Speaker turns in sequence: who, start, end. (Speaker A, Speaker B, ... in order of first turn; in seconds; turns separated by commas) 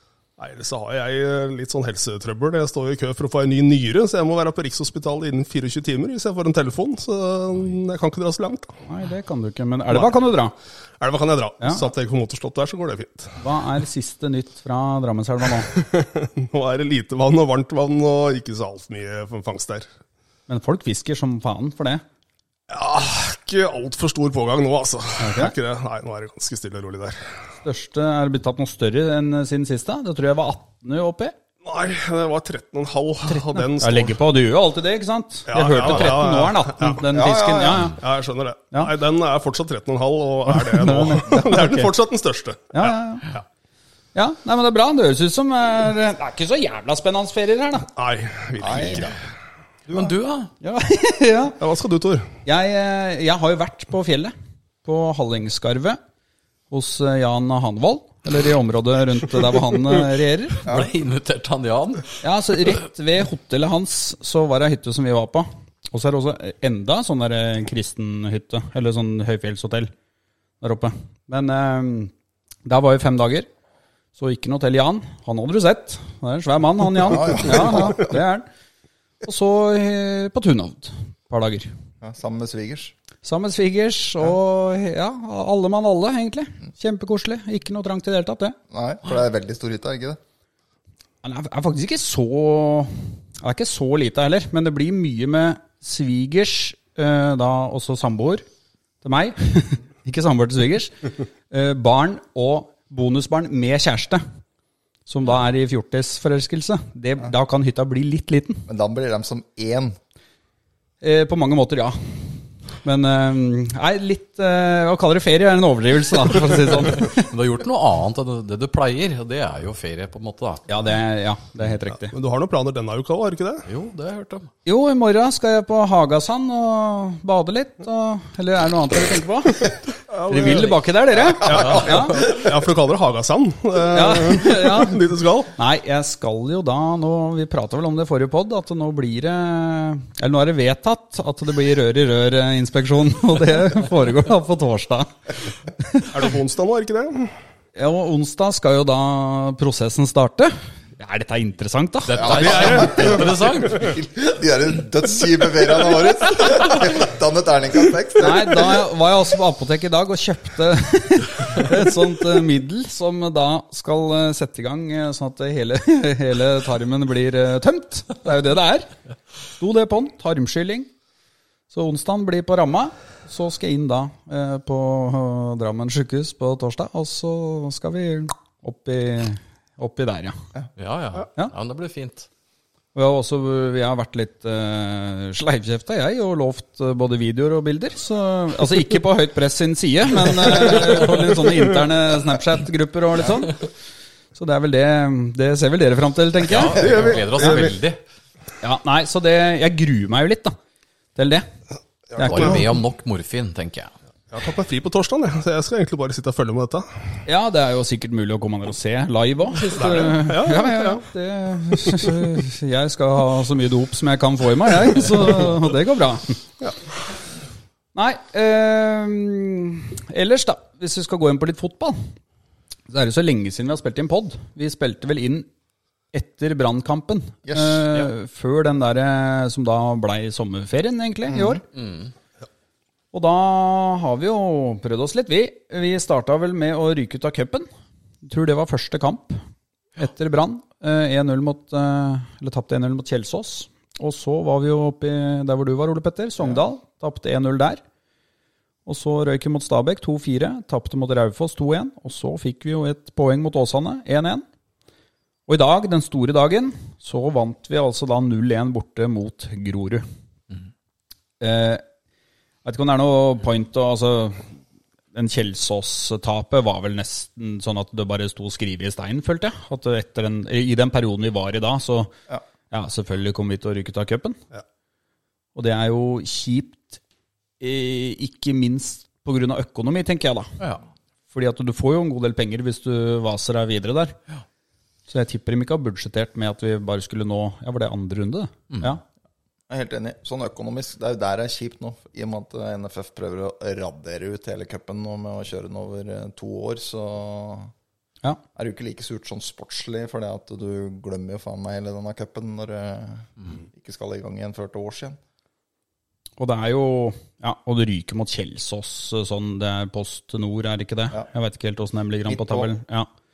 Speaker A: 0.4-8.8, Speaker B: 8.9-10.5, Speaker A: 9.9-10.2, Speaker A: 11.0-13.4, Speaker B: 11.6-11.9, Speaker B: 13.4-15.7, Speaker A: 15.6-19.9, Speaker B: 20.5-22.0, Speaker A: 22.7-27.3, Speaker B: 25.2-25.5, Speaker B: 27.6-31.3, Speaker A: 31.6-34.2, Speaker B: 33.3-38.0, Speaker A: 35.5-37.0, Speaker C: 37.1-37.9, Speaker A: 37.9-43.4, Speaker B: 40.5-41.9, Speaker B: 42.7-43.3, Speaker B: 44.1-47.9, Speaker A: 48.0-49.2, Speaker C: 48.6-49.2, Speaker C: 49.9-50.1, Speaker D: 49.9-50.5, Speaker B: 50.6-51.6, Speaker A: 51.6-52.3, Speaker B: 52.4-54.3, Speaker B: 54.8-56.0, Speaker B: 56.7-60.7, Speaker D: 60.6-62.7, Speaker B: 62.2-69.9, Speaker B: 70.6-72.1, Speaker B: 72.7-73.5, Speaker B: 74.2-78.5, Speaker C: 77.0-78.2, Speaker B: 79.2-81.7, Speaker C: 82.0-82.9, Speaker B: 83.2-88.6, Speaker C: 88.7-90.2, Speaker B: 91.2-98.4, Speaker B: 99.0-100.9, Speaker B: 101.5-104.2, Speaker B: 105.1-108.7, Speaker C: 108.7-110.0, Speaker B: 111.0-117.2, Speaker D: 117.0-120.6, Speaker B: 120.7-122.2, Speaker A: 122.1-123.7, Speaker D: 123.7-124.5, Speaker B: 124.6-132.3, Speaker A: 130.1-130.8, Speaker A: 131.3-135.5, Speaker B: 133.9-135.0, Speaker B: 135.5-145.1, Speaker B: 145.8-146.1, Speaker A: 146.1-147.3, Speaker B: 147.8-152.9, Speaker D: 152.1-154.0, Speaker C: 152.2-158.9, Speaker A: 152.3-153.3, Speaker B: 158.2-168.9, Speaker B: 169.5-170.9, Speaker B: 171.7-180.4, Speaker D: 180.8-182.3, Speaker B: 182.9-193.7, Speaker B: 194.3-196.8, Speaker D: 196.4-198.0, Speaker A: 196.7-197.8, Speaker B: 197.4-197.7, Speaker B: 198.6-200.6, Speaker B: 201.2-201.4, Speaker A: 202.1-202.6, Speaker B: 202.1-202.7, Speaker D: 202.2-203.9, Speaker A: 204.3-207.0, Speaker B: 207.2-216.4, Speaker A: 209.6-211.1, Speaker B: 217.9-222.1, Speaker B: 222.9-225.5, Speaker B: 226.1-231.6, Speaker C: 227.4-227.9, Speaker C: 231.3-231.6, Speaker D: 231.7-232.1, Speaker B: 233.1-237.7, Speaker B: 238.2-239.4, Speaker B: 240.0-247.8, Speaker B: 248.8-254.4, Speaker B: 255.5-260.0, Speaker B: 261.4-261.8, Speaker B: 262.6-264.5, Speaker B: 265.1-272.1, Speaker B: 272.7-274.4, Speaker B: 275.5-277.0, Speaker B: 277.6-280.6, Speaker B: 281.3-284.2, Speaker B: 285.1-289.0, Speaker C: 289.7-297.7, Speaker C: 298.6-305.2, Speaker B: 306.4-313.1, Speaker C: 312.3-312.7